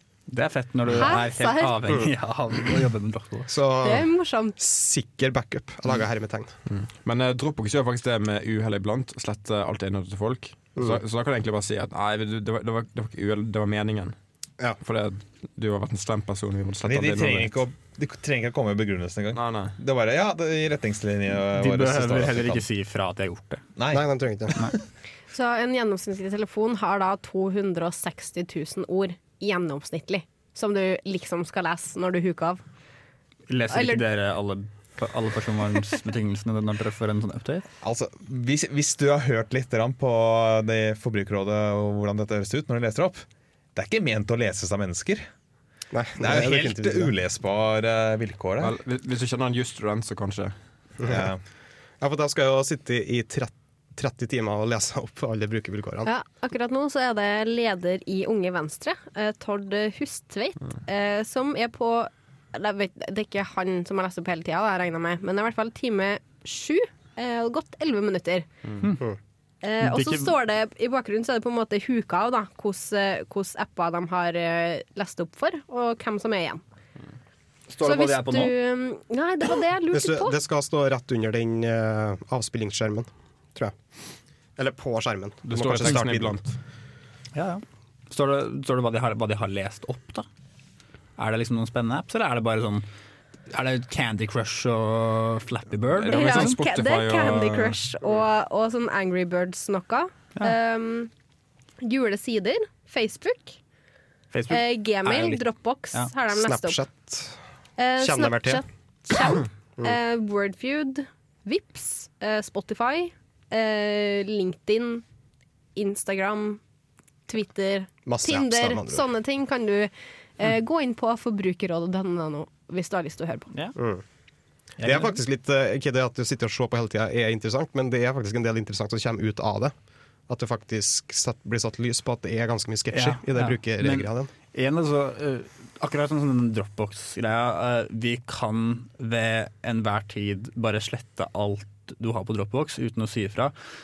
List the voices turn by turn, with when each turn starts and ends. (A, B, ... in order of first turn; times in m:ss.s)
0:00.3-0:03.5 A
0:00.9-0:01.8 B
0:03.5-0:06.5 C
0:03.8-0:04.6 B
0:06.7-0:14.2 D
0:14.8-0:17.6 D
0:16.8-0:22.6 E
0:19.3-0:19.8 D
0:21.5-0:23.6 A
0:23.8-0:24.7 E
0:23.9-0:24.6 C
0:25.3-0:32.6 B
0:33.5-0:37.6 A
0:33.7-0:34.0 B
0:37.8-0:45.3 E
0:45.9-0:47.1 C
0:46.2-0:48.7 E
0:48.6-0:50.5 D
0:51.0-0:51.3 C
0:51.0-0:51.4 E
0:52.0-0:56.1 C
0:56.0-1:08.4 B
1:08.8-1:09.1 A
1:09.6-1:16.6 B
1:09.8-1:10.3 A
1:17.7-1:18.5 A
1:17.8-1:20.3 B
1:19.9-1:23.8 C
1:24.6-1:26.4 C
1:25.4-1:26.6 D
1:27.3-1:30.3 A
1:31.2-1:32.8 A
1:33.5-1:36.6 A
1:36.0-1:37.8 D
1:36.1-1:41.1 B
1:41.8-1:43.6 B
1:44.3-1:46.1 A
1:44.5-1:46.8 B
1:46.3-1:47.4 C
1:47.8-1:55.0 B
1:48.0-1:48.6 C
1:55.8-1:56.6 B
1:57.3-2:03.5 B
1:58.0-1:59.0 C
2:03.8-2:04.0 C
2:04.8-2:05.2 A
2:04.8-2:09.7 C
2:10.3-2:14.3 C
2:12.9-2:23.5 A